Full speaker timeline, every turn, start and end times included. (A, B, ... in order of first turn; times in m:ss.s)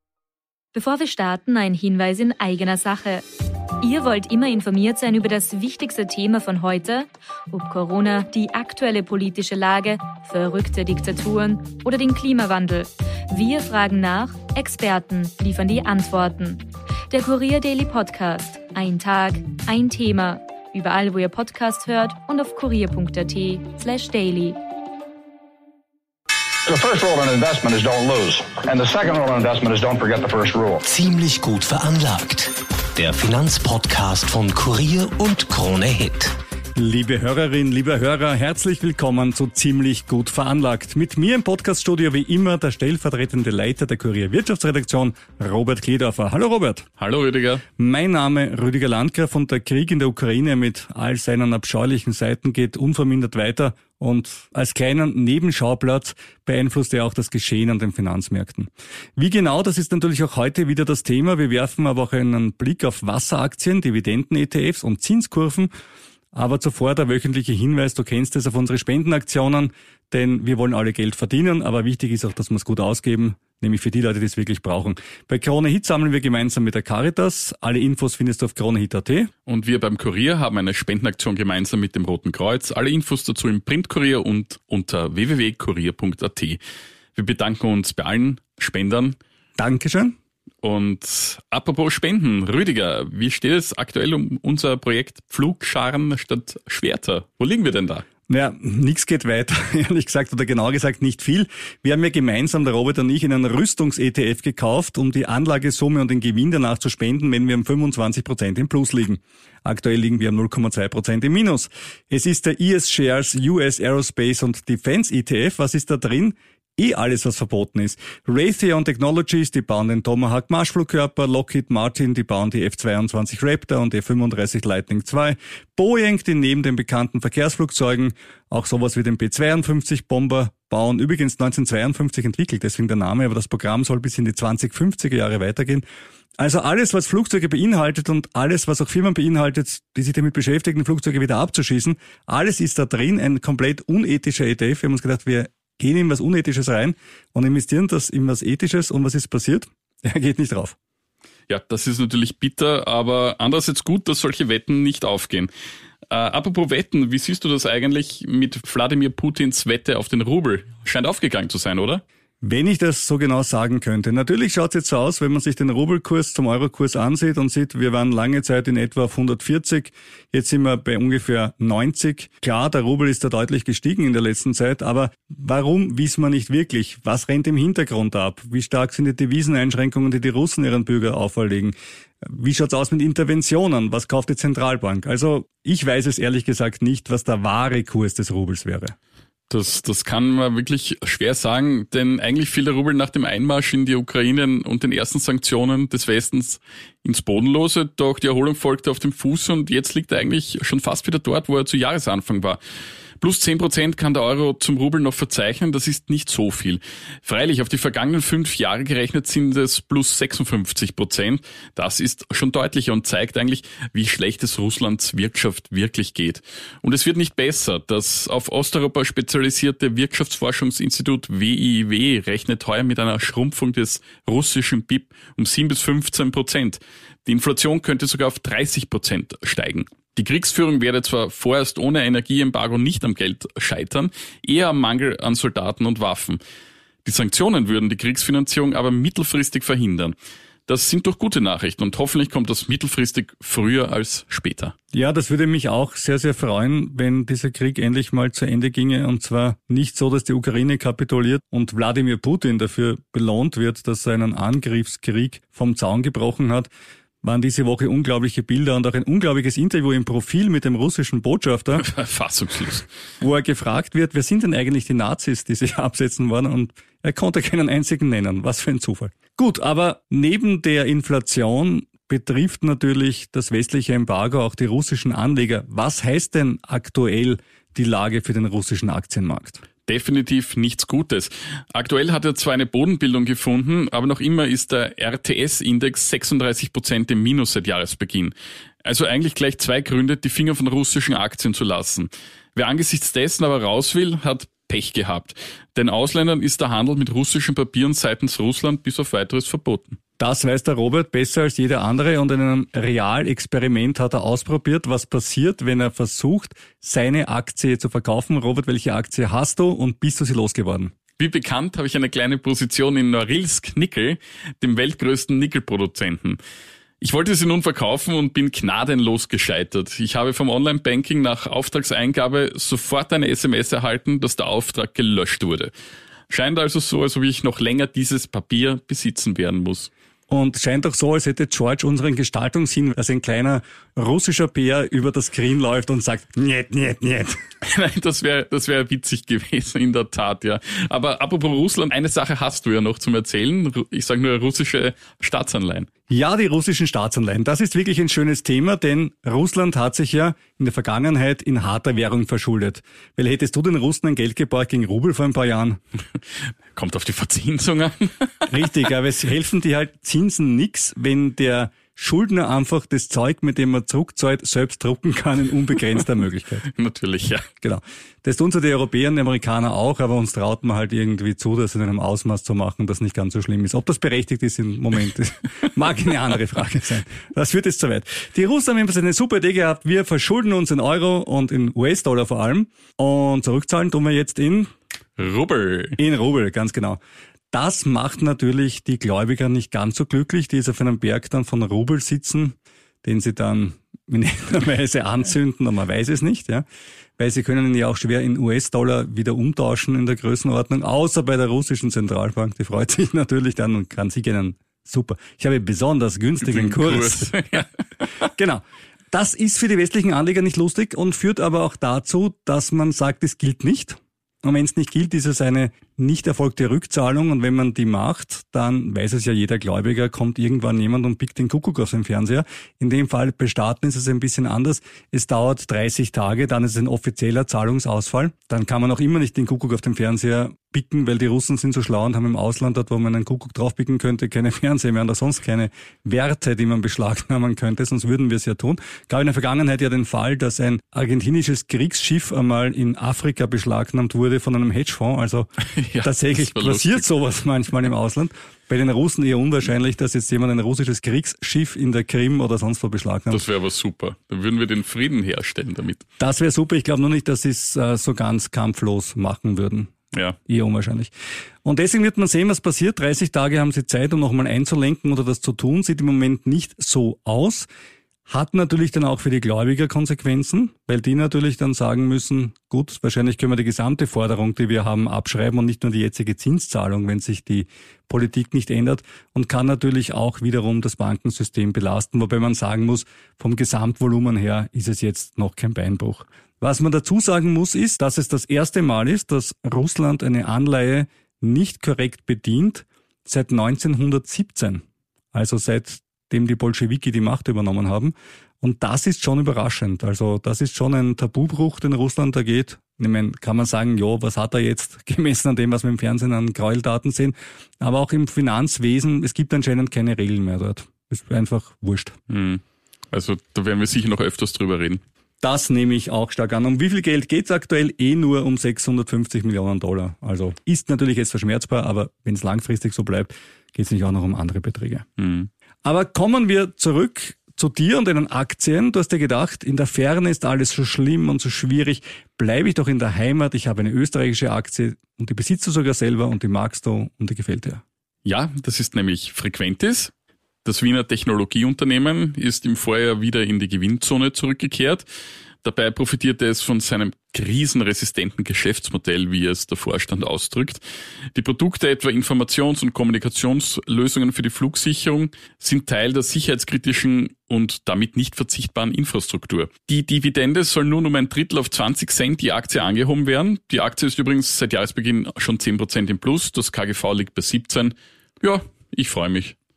0:00.7-0:03.2 A
0:03.8-0:24.6 A
0:26.6-0:30.8 B
0:30.8-0:36.4 C
0:36.8-0:46.8 D
0:47.0-0:47.6 E
0:47.8-1:05.7 D
1:06.3-1:19.3 D
1:19.4-1:26.6 E
1:27.2-1:29.2 E
1:29.6-1:30.2 D
1:30.6-1:38.0 E
1:38.3-2:15.8 D
2:16.4-2:30.8 D
2:31.5-2:35.5 E
2:36.1-2:42.0 E
2:42.4-3:08.9 D
3:09.5-3:22.6 E
3:23.2-3:56.4 E
3:57.0-4:00.1 E
4:00.7-4:04.7 E
4:04.9-4:16.7 D
4:17.2-4:21.9 D
4:21.8-4:22.9 E
4:23.2-4:39.6 D
4:39.9-4:48.3 E
4:48.8-5:00.0 E
5:00.2-5:10.9 D
5:11.2-5:16.4 E
5:17.0-5:25.7 E
5:26.3-5:29.9 E
5:30.3-5:37.4 D
5:37.6-5:45.9 E
5:46.1-5:55.8 D
5:56.7-5:58.5 E
5:58.5-6:06.6 D
6:06.7-6:07.4 E
6:07.6-6:24.7 D
6:25.2-6:26.0 E
6:26.0-6:27.0 D
6:27.5-6:36.6 D
6:37.2-6:47.6 D
6:46.4-6:47.7 E
6:48.3-7:25.5 D
7:25.7-7:27.1 E
7:26.0-7:33.4 D
7:33.3-7:36.0 E
7:36.2-7:39.9 D
7:40.5-7:41.1 D
7:41.6-7:47.7 D
7:48.3-8:32.1 D
8:32.3-8:35.0 E
8:35.4-8:45.0 D
8:45.2-8:45.5 E
8:45.8-8:57.8 D
8:58.2-9:00.1 E
9:00.6-9:05.0 E
9:05.6-9:10.8 E
9:11.3-9:29.5 E